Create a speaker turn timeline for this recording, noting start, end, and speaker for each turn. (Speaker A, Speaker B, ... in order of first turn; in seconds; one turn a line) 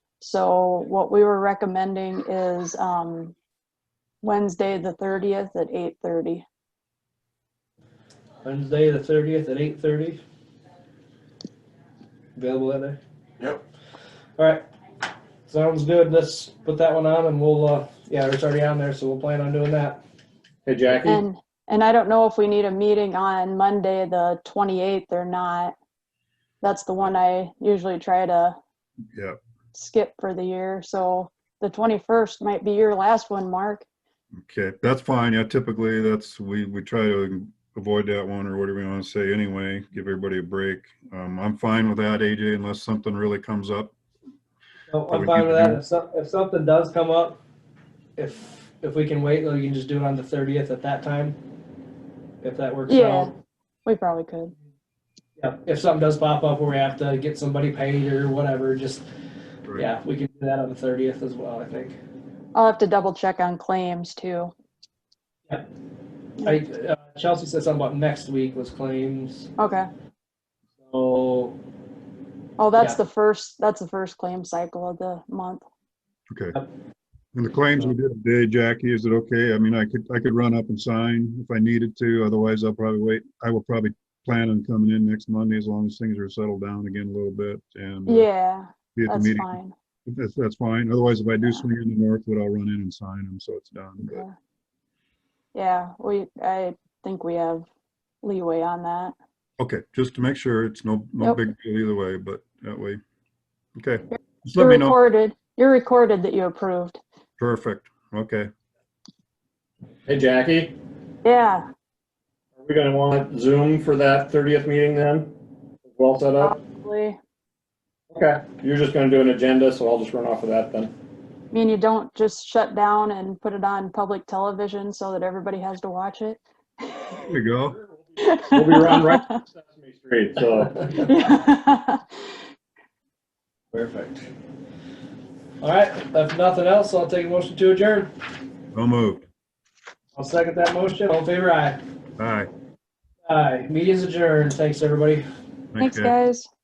Speaker A: 0.2-3.4
Speaker A: 4.2-6.5
Speaker B: 8.4-10.2
Speaker B: 12.4-13.0
Speaker B: 14.4-14.7
Speaker B: 15.5-20.0
Speaker C: 20.7-21.2
Speaker A: 21.1-25.7
Speaker A: 26.6-28.6
Speaker A: 29.7-33.9
Speaker D: 34.4-43.9
Speaker B: 44.9-47.4
Speaker D: 45.1-45.8
Speaker B: 48.2-51.4
Speaker B: 52.4-53.3
Speaker A: 52.9-53.3
Speaker A: 53.9-54.5
Speaker B: 55.4-59.0
Speaker B: 59.8-62.0
Speaker A: 62.5-64.5
Speaker B: 66.4-69.5
Speaker A: 69.6-69.9
Speaker B: 70.8-71.6
Speaker A: 72.6-75.7
Speaker D: 76.3-76.6
Speaker D: 77.3-88.3
Speaker A: 88.1-89.7
Speaker D: 89.0-89.6
Speaker D: 90.1-94.2
Speaker A: 94.0-94.4
Speaker A: 95.5-97.7
Speaker A: 98.2-99.2
Speaker D: 99.6-103.0
Speaker D: 103.8-105.0
Speaker A: 104.6-107.0
Speaker D: 107.4-108.5
Speaker C: 110.1-110.8
Speaker A: 111.2-111.7
Speaker C: 112.6-115.3
Speaker C: 115.9-116.6
Speaker A: 116.4-117.2
Speaker C: 118.1-120.9
Speaker A: 121.5-126.4
Speaker D: 127.1-127.8
Speaker C: 127.8-130.9
Speaker A: 128.2-129.4
Speaker A: 131.0-132.1
Speaker B: 133.7-134.3
Speaker B: 135.6-138.1
Speaker D: 138.7-139.3
Speaker B: 140.2-141.8
Speaker D: 142.2-142.5
Speaker B: 143.3-145.2
Speaker D: 145.7-146.2
Speaker A: 145.8-146.5